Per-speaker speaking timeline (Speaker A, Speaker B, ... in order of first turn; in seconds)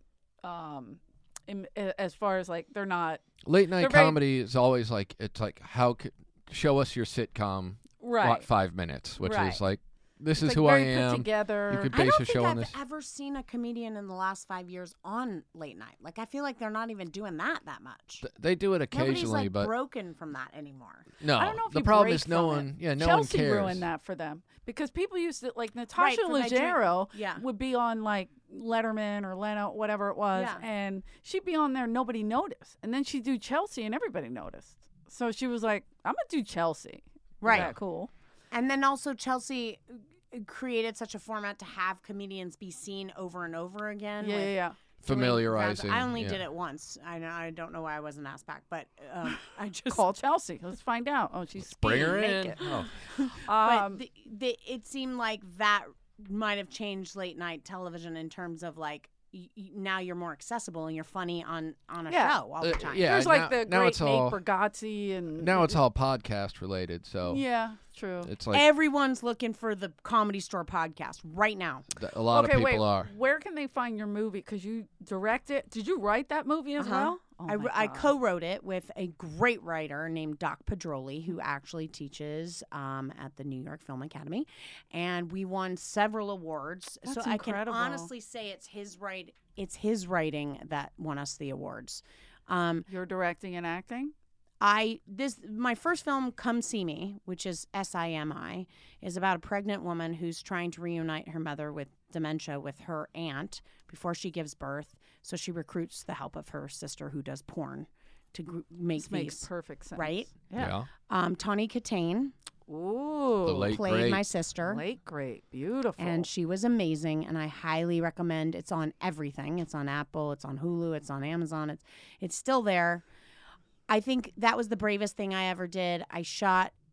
Speaker A: 0.4-3.2, 3.8-4.2, 8.0-8.5, 9.2-9.6, 10.4-12.0, 21.3-38.1, 44.2-44.8, 49.9-54.0, 62.1-62.4, 63.0-65.8, 67.3-68.3, 72.3-78.1, 87.0-88.1, 92.9-94.1, 109.0-110.7, 112.7-113.8, 114.7-116.3
Speaker B: 3.4-12.8, 18.2-19.7, 21.2-23.9, 37.5-37.8, 45.0-46.4, 51.6-53.1, 62.6-64.4, 65.4-67.4, 68.2-68.7, 72.0-73.1, 110.6-110.9, 113.5-114.3
Speaker C: 11.9-18.2, 18.9-21.1, 26.0-27.4, 30.4-30.6, 37.4-37.8, 38.5-44.5, 45.0-50.0, 52.0-52.7, 53.3-63.1, 68.5-71.9, 76.8-92.9, 94.6-110.3, 111.1-112.3, 113.7-114.8, 116.0-123.0, 123.9-126.7